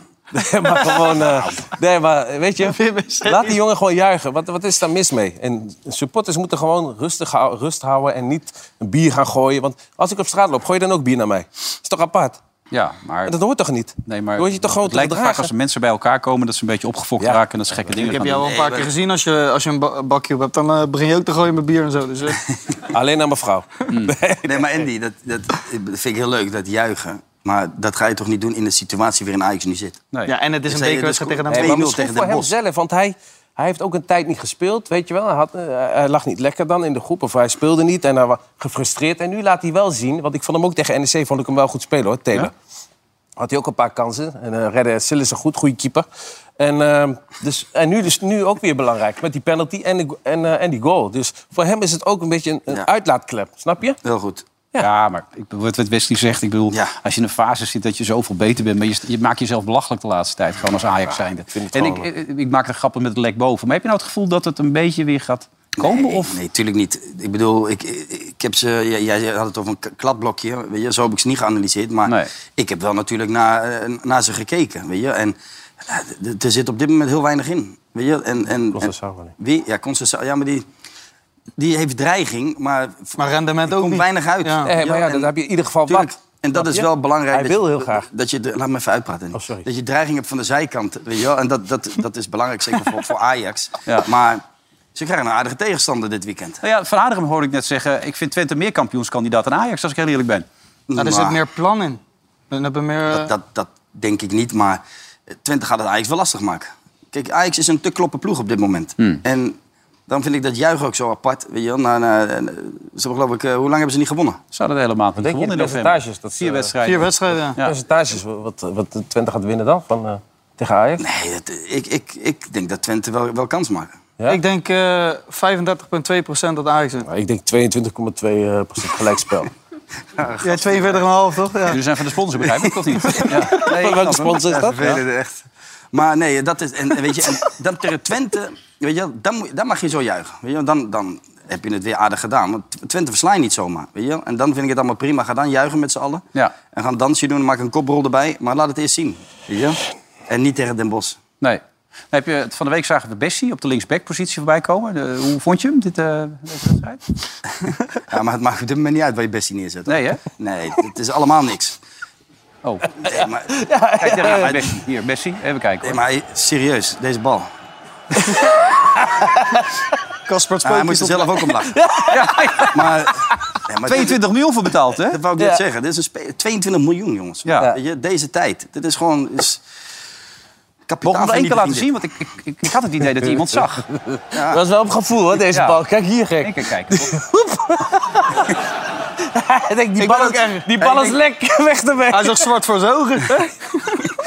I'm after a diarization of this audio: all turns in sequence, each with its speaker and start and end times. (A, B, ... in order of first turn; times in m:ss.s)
0:00.3-0:12.4 A
0:02.6-0:03.5 B
0:12.7-0:13.3 C
0:13.2-0:15.5 A
0:14.0-0:18.5 C
0:17.2-0:18.1 A
0:18.0-0:22.4 B
0:18.4-0:18.9 D
0:22.9-0:24.8 A
0:24.4-0:30.0 D
0:30.3-0:31.8 B
0:30.7-0:32.5 D
0:31.5-0:42.5 A
0:43.4-0:46.1 A
0:46.6-0:54.0 A
0:54.0-0:54.4 D
0:54.7-1:06.4 C
1:01.0-1:02.1 A
1:05.8-1:20.6 D
1:18.7-1:19.3 A
1:21.6-1:23.2 D
1:23.2-1:24.7 B
1:23.7-1:25.3 D
1:24.6-1:28.1 A
1:25.9-1:34.4 D
1:29.3-1:29.7 A
1:34.9-1:36.6 D
1:36.6-1:40.4 C
1:40.9-1:41.4 D
1:41.0-1:42.0 B
1:42.5-1:43.3 B
1:43.1-1:44.8 D
1:45.3-1:49.6 D
1:50.1-1:54.4 D
1:54.5-1:57.7 C
1:55.2-1:56.8 A
1:56.8-1:57.6 B
1:57.6-2:01.0 A
2:01.0-2:04.0 D
2:04.3-2:07.1 B
2:07.0-2:09.5 A
2:10.2-2:11.0 D
2:10.4-2:11.8 B
2:11.7-2:15.0 C
2:13.3-2:15.0 A
2:14.2-2:15.4 D
2:15.9-2:31.2 D
2:31.4-2:37.0 C
2:38.1-2:41.8 D
2:39.9-2:40.2 C
2:43.0-2:43.5 D
2:43.5-2:44.7 A
2:44.0-2:46.0 C
2:44.3-2:44.6 D
2:45.8-2:47.5 D
2:49.1-2:49.6 A
2:50.3-2:51.4 B
2:50.6-2:51.8 D
2:51.5-2:53.0 A
2:52.1-2:52.7 C
2:52.7-2:54.2 D
2:53.8-2:55.2 C
2:55.1-2:59.6 D
2:57.4-2:57.7 C
3:00.9-3:01.8 D
3:01.0-3:03.9 C
3:03.9-3:08.5 A
3:04.3-3:04.6 D
3:05.5-3:05.8 C
3:06.4-3:07.1 C
3:09.2-3:12.4 A
3:10.0-3:10.7 B
3:10.8-3:11.1 D
3:12.1-3:14.0 B